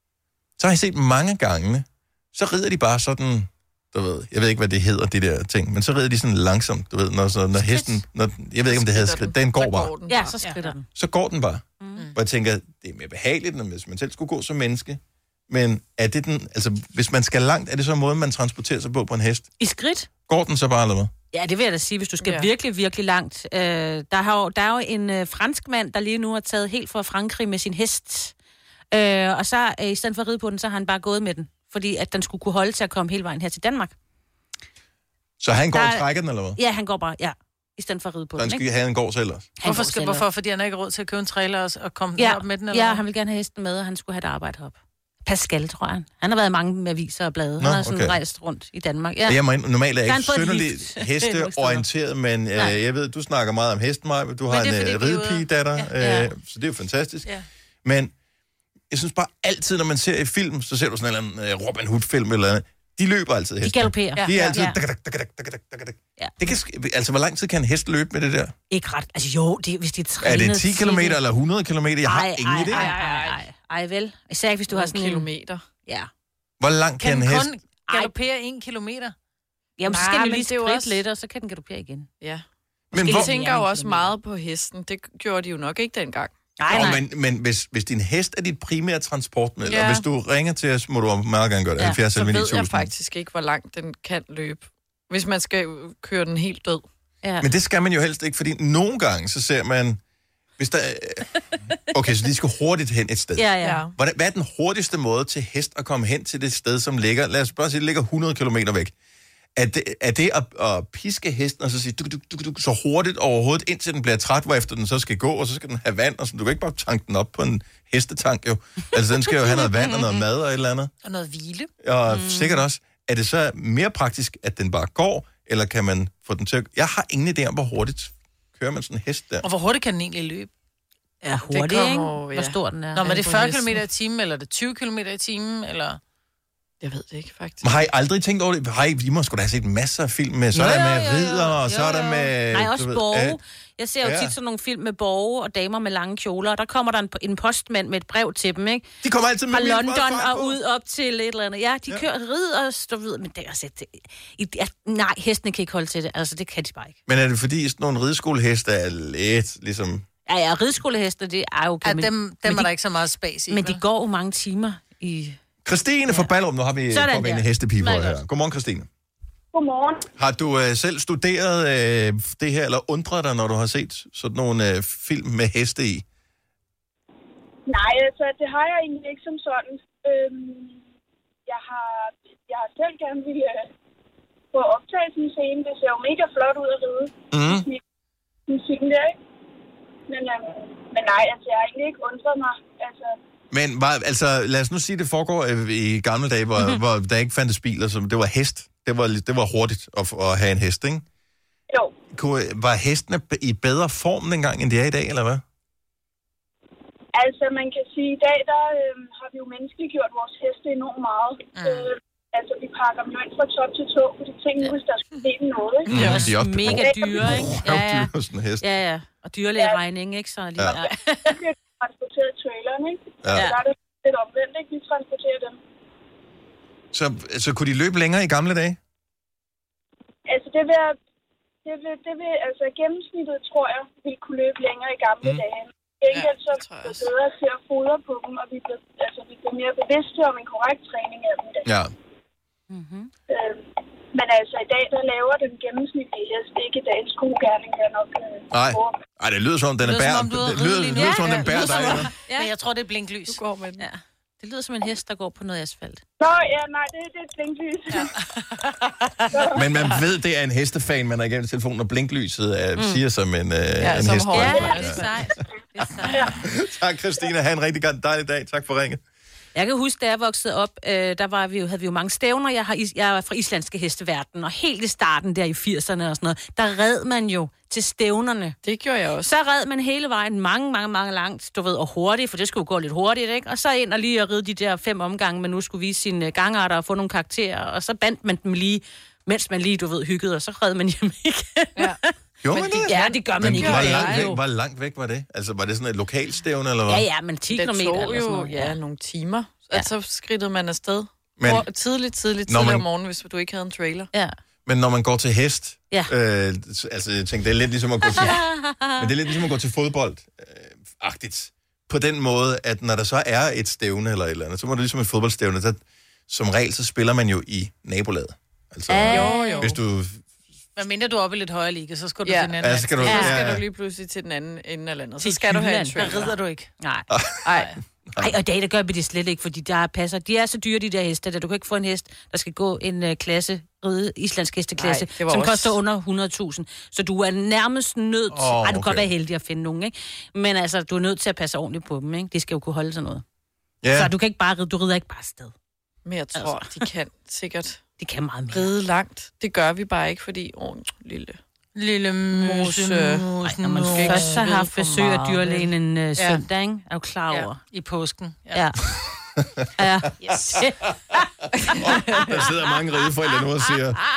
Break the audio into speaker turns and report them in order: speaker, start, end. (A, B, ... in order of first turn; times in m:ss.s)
0:00.6-0:09.9 A
0:07.6-0:07.9 B
0:08.7-0:10.4 C
0:10.1-0:10.8 B
0:10.9-0:19.5 A
0:11.8-0:12.1 B
0:19.6-0:20.1 B
0:20.2-0:21.1 A
0:21.3-0:28.3 B
0:22.2-0:22.5 C
0:28.9-0:33.9 B
0:35.4-0:36.6 A
0:35.7-0:38.6 B
0:38.4-0:39.5 A
0:39.6-0:40.2 B
0:39.6-0:43.0 D
0:42.2-0:49.4 B
0:47.6-0:48.2 A
0:49.3-0:57.3 A
0:50.0-0:51.8 B
0:54.5-0:55.9 D
0:56.0-0:56.3 B
0:57.8-0:58.1 A
0:58.9-1:08.5 A
1:03.6-1:04.8 B
1:04.1-1:04.6 D
1:06.2-1:06.5 B
1:08.7-1:11.2 B
1:10.2-1:12.9 A
1:12.0-1:15.3 B
1:12.7-1:13.4 D
1:14.7-1:15.6 C
1:16.6-1:17.5 A
1:17.0-1:19.1 D
1:19.8-1:22.1 B
1:19.9-1:21.0 C
1:22.2-1:26.3 C
1:22.9-1:23.3 A
1:23.0-1:24.1 B
1:26.6-1:27.0 B
1:26.7-1:32.9 A
1:29.6-1:30.0 C
1:31.8-1:32.0 B
1:32.1-1:36.8 C
1:37.2-1:37.5 B
1:37.4-1:40.0 A
1:40.6-1:41.2 A
1:41.8-1:48.9 A
1:43.4-1:43.8 B
1:43.6-1:43.9 C
1:49.6-2:00.9 A
1:59.5-2:00.0 B
2:01.0-2:01.7 D
2:01.8-2:09.4 A
2:02.1-2:02.6 B
2:09.4-2:10.5 D
2:11.2-2:13.2 B
2:11.5-2:13.8 C
2:12.9-2:16.0 D
2:16.8-2:17.7 C
2:17.6-2:23.4 A
2:20.5-2:28.9 B
2:24.0-2:24.3 A
2:29.0-2:30.6 A
2:29.5-2:37.0 B
2:37.1-2:40.0 A
2:40.2-2:42.7 B
2:41.8-2:43.8 D
2:43.5-2:45.4 B
2:45.6-2:48.9 A
2:46.9-2:48.2 B
2:49.5-2:50.0 E
2:50.2-2:56.0 A
2:57.7-3:00.8 E
3:01.5-3:03.7 E
3:04.5-3:07.8 E
3:07.3-3:07.6 A
3:08.5-3:09.1 E
3:10.1-3:13.2 E
3:13.5-3:21.0 A
3:22.1-3:25.4 A
3:27.1-3:36.1 E
3:31.5-3:31.9 D
3:35.9-3:38.7 A
3:35.9-3:41.4 B
3:36.7-3:37.2 E
3:41.3-3:45.6 E
3:43.2-3:43.5 A
3:43.3-3:43.6 B
3:46.9-3:48.8 A
3:50.3-3:51.0 E
3:51.6-4:01.7 E
3:56.1-3:57.1 C
4:01.6-4:01.9 A
4:02.7-4:03.1 B
4:03.3-4:09.0 E
4:08.5-4:12.1 A
4:09.8-4:13.4 D
4:10.9-4:12.5 B
4:13.3-4:13.9 C
4:13.8-4:16.0 B
4:16.2-4:18.1 E
4:19.3-4:19.7 E
4:19.5-4:25.1 A
4:22.8-4:23.0 B
4:23.8-4:25.1 C
4:24.3-4:26.4 B
4:26.2-4:29.0 A
4:29.5-4:38.6 B
4:38.6-4:39.3 C
4:39.2-4:52.1 B
4:52.4-4:57.0 A
4:52.5-4:54.3 C
4:52.8-4:54.4 B
4:56.9-4:58.8 B
4:57.5-5:04.1 C
5:01.4-5:01.6 A
5:02.5-5:02.8 A
5:04.6-5:08.4 A
5:08.1-5:09.1 B
5:09.0-5:20.2 A
5:18.9-5:19.7 B
5:19.1-5:19.8 C
5:20.8-5:23.5 D
5:22.2-5:26.4 C
5:22.6-5:23.6 A
5:23.0-5:23.4 B
5:25.2-5:26.3 B
5:26.0-5:26.7 D
5:26.8-5:27.1 B
5:27.1-5:27.4 A
5:27.4-5:27.7 C
5:28.1-5:28.3 A
5:28.2-5:43.2 B
5:34.8-5:35.8 C
5:38.3-5:39.1 A
5:43.8-5:44.1 A
5:43.9-5:45.5 B
5:46.0-5:47.8 C
5:46.4-5:46.9 B
5:48.0-5:48.7 B
5:48.5-5:51.4 C
5:51.7-5:54.5 D
5:52.3-5:53.2 C
5:53.4-5:57.6 B
5:53.8-5:55.6 C
5:56.2-5:56.4 D
5:57.3-5:58.7 D
5:58.5-5:58.8 B
5:59.0-5:59.7 A
5:59.8-6:00.8 B
6:01.6-6:02.4 C
6:01.8-6:04.0 A